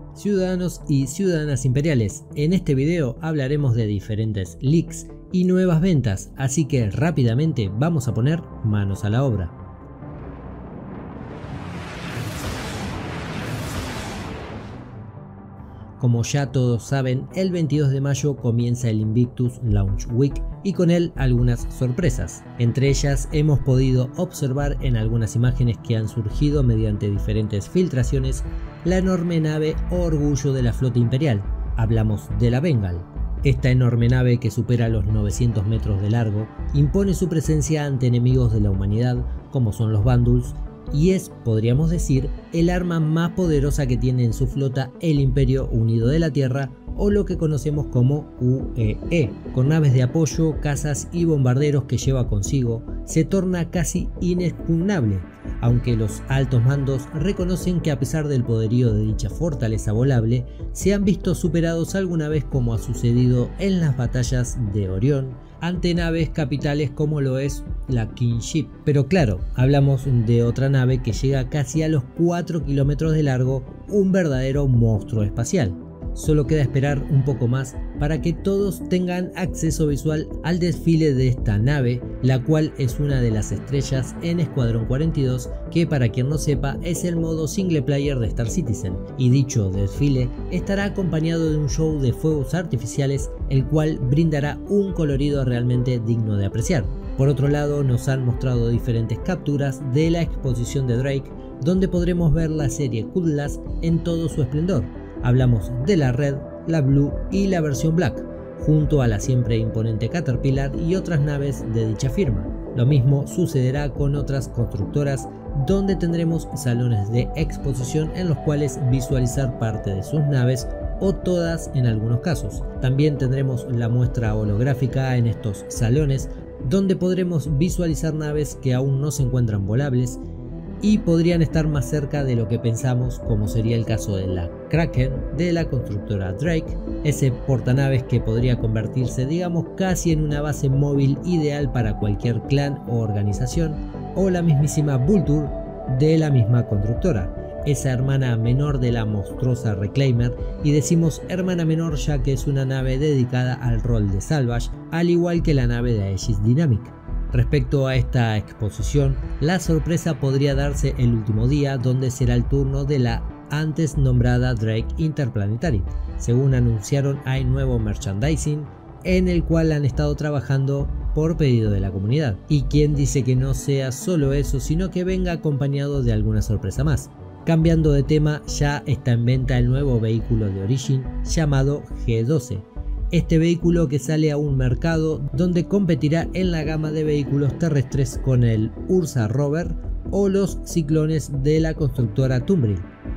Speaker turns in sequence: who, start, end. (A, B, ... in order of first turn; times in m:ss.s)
0:00.2-0:09.6 A
0:16.0-2:10.2 A
2:10.8-3:12.9 A